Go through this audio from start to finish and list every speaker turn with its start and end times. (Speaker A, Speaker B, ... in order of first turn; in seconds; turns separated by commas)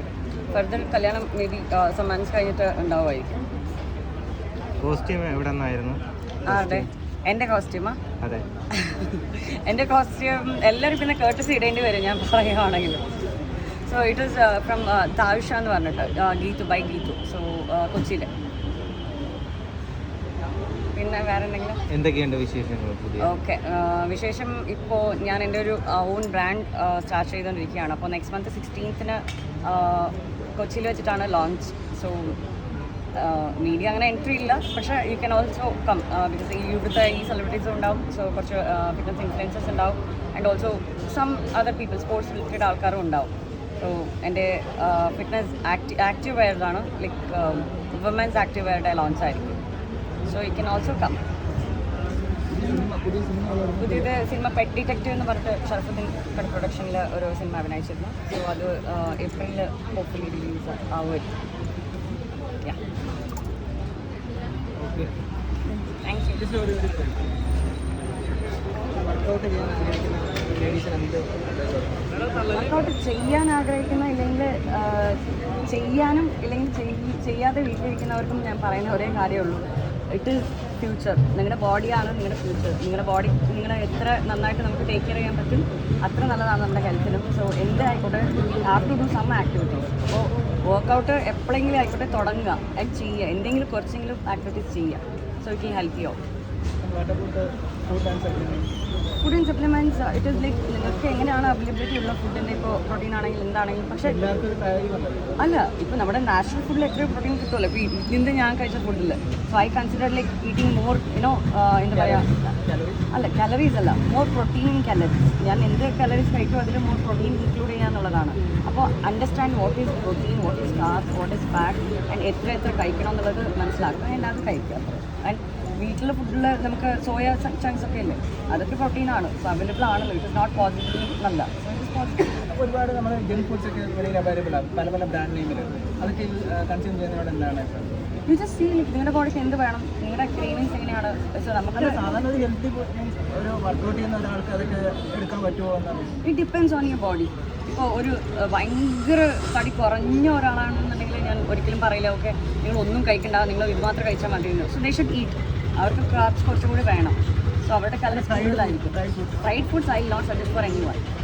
Speaker A: 0.5-3.4, Speaker B: 4.8-6.9, Speaker A: 6.5-8.0, Speaker A: 8.7-13.0, Speaker A: 13.8-18.3, Speaker A: 20.9-21.8, Speaker B: 21.9-23.3, Speaker A: 23.2-32.4, Speaker A: 33.1-49.6, Speaker A: 50.3-51.2, Speaker C: 52.5-54.1, Speaker A: 53.8-61.3, Speaker A: 65.8-66.4, Speaker C: 66.4-67.2, Speaker C: 69.0-72.0, Speaker A: 72.5-96.2, Speaker C: 96.8-98.7, Speaker A: 99.2-104.2, Speaker C: 104.0-105.4, Speaker A: 105.4-112.3, Speaker C: 111.9-113.0, Speaker A: 113.1-132.3, Speaker C: 132.5-137.9, Speaker A: 138.3-142.1, Speaker C: 141.8-146.1, Speaker A: 146.2-161.0, Speaker C: 158.1-159.4